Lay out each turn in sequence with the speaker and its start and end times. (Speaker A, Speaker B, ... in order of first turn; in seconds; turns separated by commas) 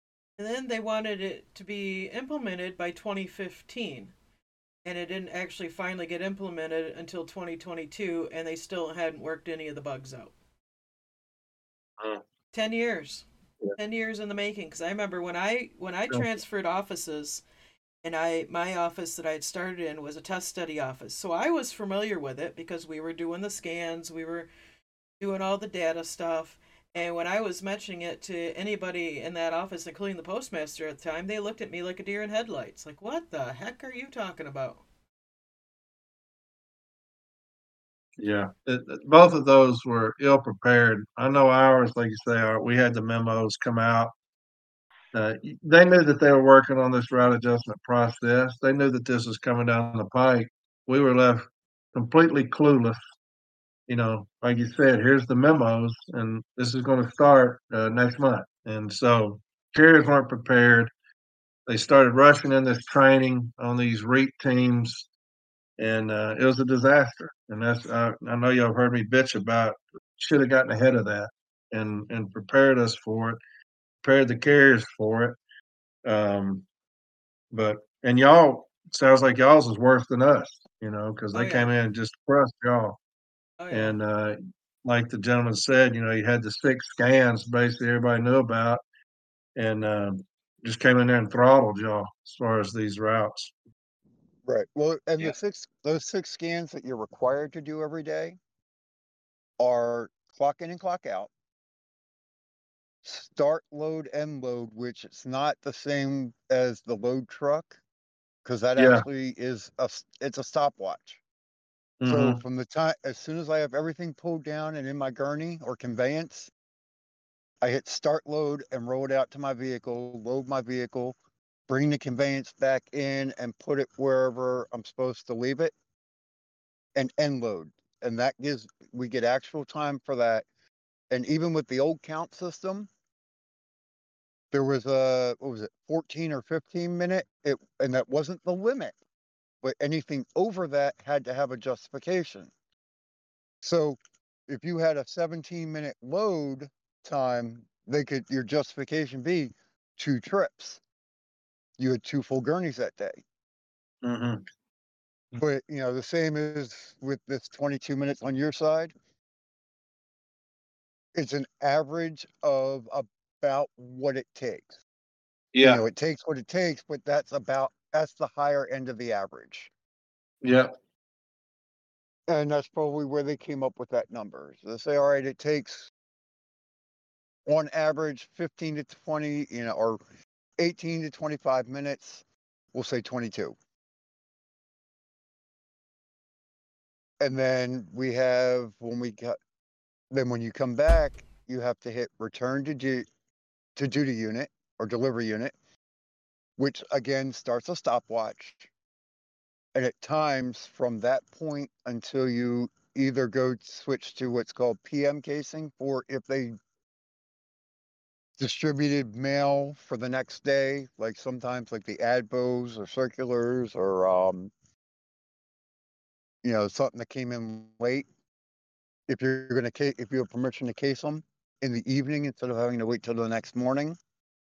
Speaker A: 0.4-4.1, Speaker A: 4.8-10.3, Speaker A: 12.5-13.2, Speaker A: 13.8-17.4, Speaker A: 18.0-24.5, Speaker A: 25.2-34.8, Speaker B: 38.2-44.1, Speaker B: 45.1-53.0, Speaker B: 53.9-60.9, Speaker B: 61.7-65.1, Speaker B: 65.8-73.4, Speaker B: 74.0-75.4, Speaker B: 76.0-76.7, Speaker B: 77.5-83.0, Speaker A: 81.3-81.7, Speaker A: 83.6-84.0, Speaker B: 83.7-88.8, Speaker B: 89.6-93.5, Speaker C: 94.5-98.4, Speaker C: 99.6-101.3, Speaker C: 103.0-107.8, Speaker C: 108.5-111.2, Speaker B: 108.8-109.0, Speaker B: 112.0-112.4, Speaker C: 112.1-116.5, Speaker C: 117.6-121.2, Speaker C: 121.7-125.7, Speaker C: 127.0-130.5, Speaker C: 131.1-132.9, Speaker C: 134.5-138.9, Speaker C: 139.6-142.5, Speaker C: 143.6-150.8, Speaker C: 151.8-153.2, Speaker B: 154.0-154.4, Speaker C: 155.4-158.9, Speaker C: 161.1-164.8, Speaker B: 165.5-165.8, Speaker C: 165.6-169.7, Speaker B: 170.4-170.7, Speaker C: 172.3-175.9, Speaker C: 177.5-180.0, Speaker C: 180.6-183.6, Speaker C: 187.2-189.4, Speaker C: 190.1-193.1, Speaker C: 193.8-195.5, Speaker C: 196.6-198.7, Speaker C: 199.8-206.6, Speaker C: 208.4-214.5, Speaker C: 216.4-218.1, Speaker C: 219.1-224.0